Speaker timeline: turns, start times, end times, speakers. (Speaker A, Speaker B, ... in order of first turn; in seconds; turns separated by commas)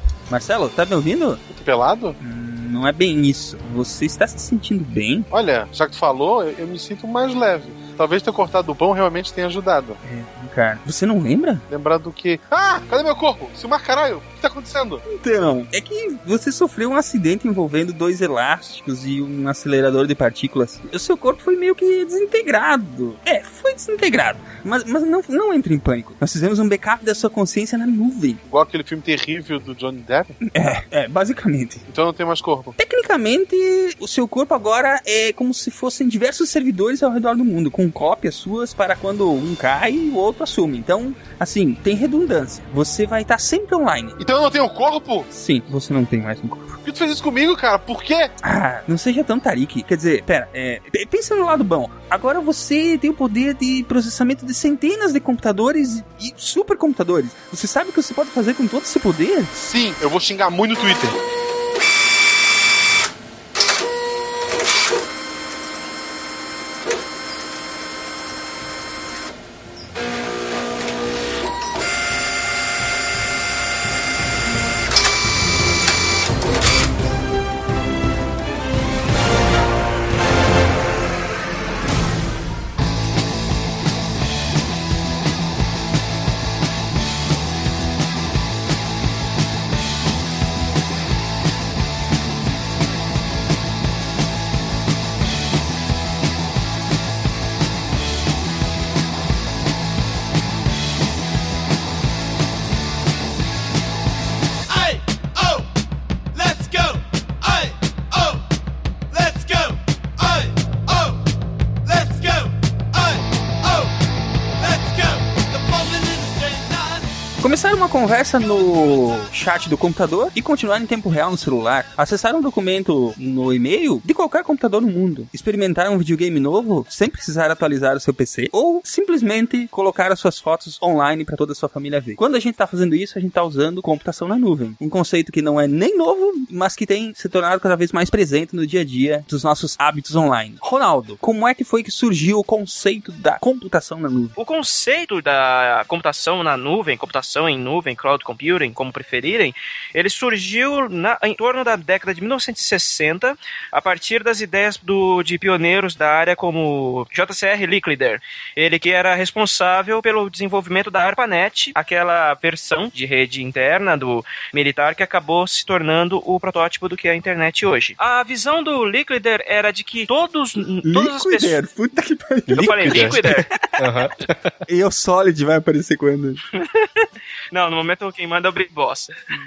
Speaker A: 0.3-1.4, Speaker B: 1.5-2.2, Speaker A: 2.2-5.3, Speaker B: 5.3-10.0, Speaker A: 10.0-11.6, Speaker B: 11.7-15.0, Speaker A: 15.1-28.4, Speaker B: 28.5-30.4, Speaker A: 30.5-31.8, Speaker B: 31.9-32.7, Speaker A: 32.8-44.2, Speaker B: 44.2-45.3, Speaker A: 45.3-46.8, Speaker B: 46.8-48.3, Speaker A: 48.4-59.5, Speaker B: 59.5-61.2, Speaker A: 117.4-144.3, Speaker C: 144.4-171.6, Speaker A: 170.8-173.2, Speaker D: 172.5-174.5, Speaker C: 172.5-173.5, Speaker A: 174.7-176.4, Speaker C: 176.5-179.2